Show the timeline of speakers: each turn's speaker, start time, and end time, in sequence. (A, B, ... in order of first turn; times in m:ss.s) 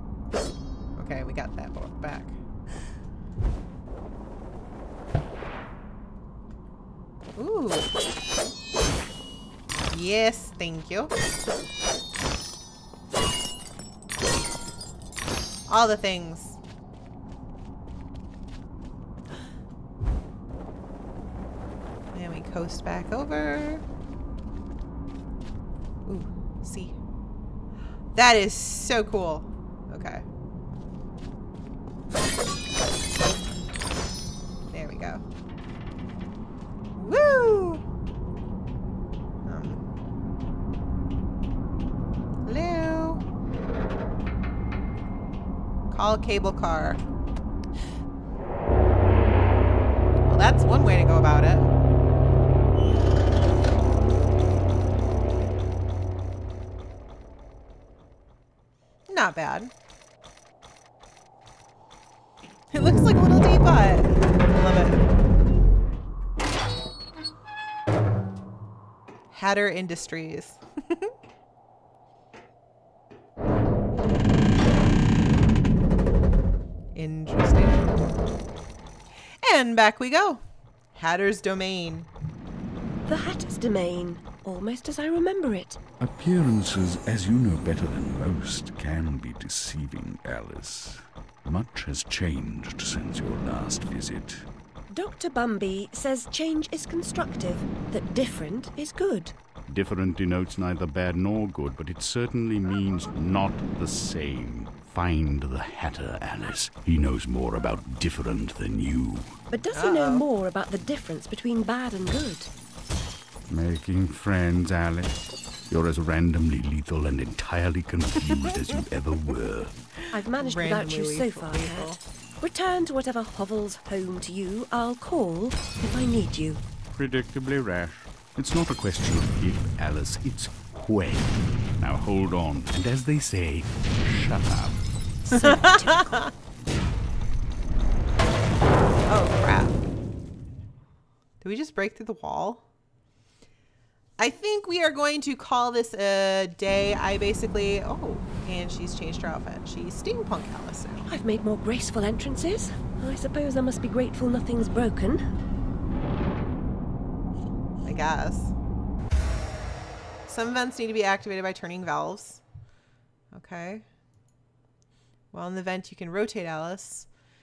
0:01.0-0:02.4 A
0:07.4-0:07.9 A
0:09.9-0:11.1 A
0:15.7-0:16.6 A
0:22.1-0:23.8 A
0:26.0-0:27.0 A
0:28.1-0:30.2 A
0:34.7-0:35.2 A
0:37.0-0:37.8 A
0:39.4-0:39.8 A
0:42.4-0:43.2 A
0:45.9-0:47.0 A
0:50.2-0:51.7 A
0:59.1-0:59.7 A
1:02.7-1:05.0 A
1:09.3-1:11.1 A
1:16.9-1:17.9 A
1:19.4-1:20.4 A
1:20.9-1:22.1 A
1:23.0-1:25.8 B
1:26.0-1:34.4 C
1:34.9-1:39.3 B
1:39.7-1:49.4 C
1:49.5-1:52.5 B
1:49.7-1:50.2 A
1:53.5-1:55.2 C
1:55.7-1:59.8 C
2:00.1-2:06.6 B
2:00.3-2:02.0 A
2:06.9-2:14.8 C
2:15.2-2:16.3 B
2:19.1-2:19.8 A
2:21.4-2:22.6 A
2:24.2-2:31.1 A
2:31.1-2:35.2 B
2:37.8-2:38.5 A
2:40.2-2:42.4 A
2:43.3-2:43.8 A
2:45.3-2:47.1 A